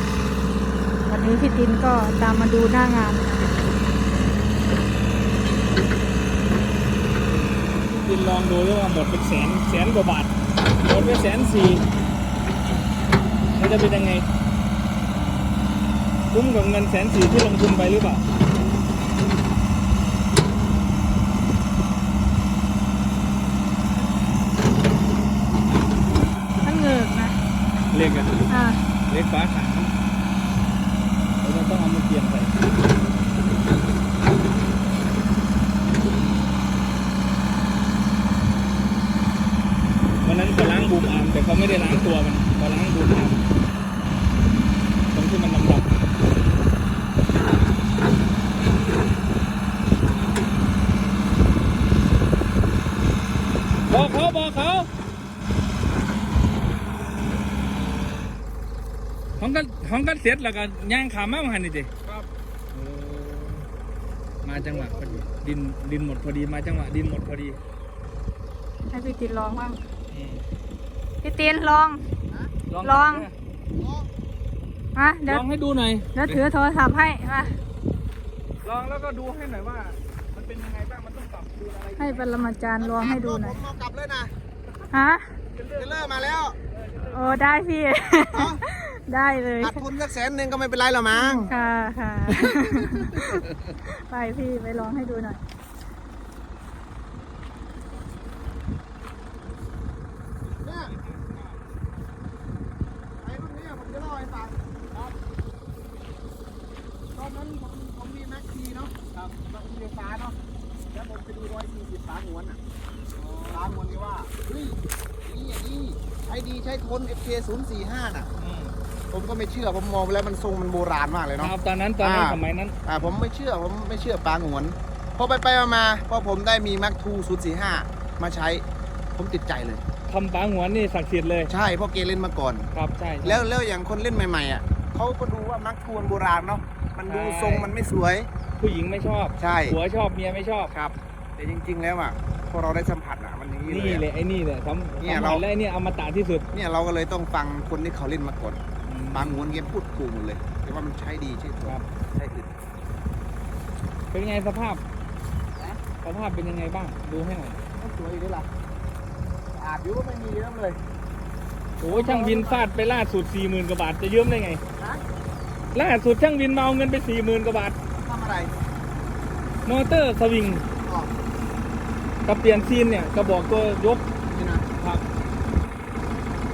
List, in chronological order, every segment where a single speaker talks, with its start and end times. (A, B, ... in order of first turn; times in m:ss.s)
0:01.1-0:03.5 A
0:07.8-0:11.8 B
0:13.5-0:14.3 B
0:16.3-0:18.2 B
0:26.6-0:27.4 A
0:27.9-0:28.4 B
0:28.5-0:28.8 A
0:29.1-0:29.9 B
0:31.4-0:32.6 B
0:40.2-0:43.4 B
0:45.1-0:45.9 B
0:53.9-0:54.9 B
0:59.4-1:02.1 B
1:02.7-1:03.7 B
1:04.4-1:07.6 B
1:04.5-1:05.3 C
1:08.9-1:09.8 A
1:10.1-1:10.4 B
1:11.2-1:12.0 A
1:12.7-1:13.3 B
1:12.8-1:13.3 A
1:13.7-1:14.1 C
1:14.9-1:15.4 A
1:15.3-1:16.4 B
1:16.1-1:17.6 A
1:18.6-1:22.3 B
1:22.0-1:23.6 A
1:22.8-1:24.3 C
1:24.9-1:25.4 A
1:25.5-1:27.4 B
1:25.7-1:26.6 C
1:27.0-1:29.8 A
1:28.3-1:28.6 C
1:29.6-1:31.5 C
1:31.1-1:35.4 A
1:31.5-1:31.7 B
1:32.3-1:33.4 C
1:40.5-1:41.8 B
1:40.6-1:40.9 C
1:43.2-1:44.6 C
1:47.1-1:50.4 C
1:50.9-1:52.6 C
1:53.2-1:53.8 B
1:53.5-1:58.3 C
1:58.4-1:58.8 B
1:59.1-2:09.8 C
2:01.4-2:02.8 B
2:10.1-2:11.5 B
2:11.5-2:12.7 C
2:12.7-2:13.4 B
2:13.2-2:18.3 C
2:17.1-2:17.7 B
2:18.6-2:20.7 B
2:19.4-2:19.8 C
2:20.7-2:24.1 C
2:23.7-2:26.5 B
2:25.0-2:25.4 C
2:26.5-2:28.6 C
2:28.8-2:29.7 B
2:29.1-2:32.5 C
2:34.1-2:34.8 B
2:35.6-2:35.8 C
2:36.0-2:37.6 B
2:37.8-2:38.5 C
2:39.5-2:40.8 C
2:41.8-2:44.6 B
2:41.8-2:42.6 C
2:44.8-2:45.0 C
2:45.7-2:47.8 B
2:48.0-2:48.5 C
2:49.6-2:50.6 B
2:50.8-2:51.1 C
2:52.2-2:54.1 B
2:54.3-2:54.7 C
2:54.8-2:55.0 B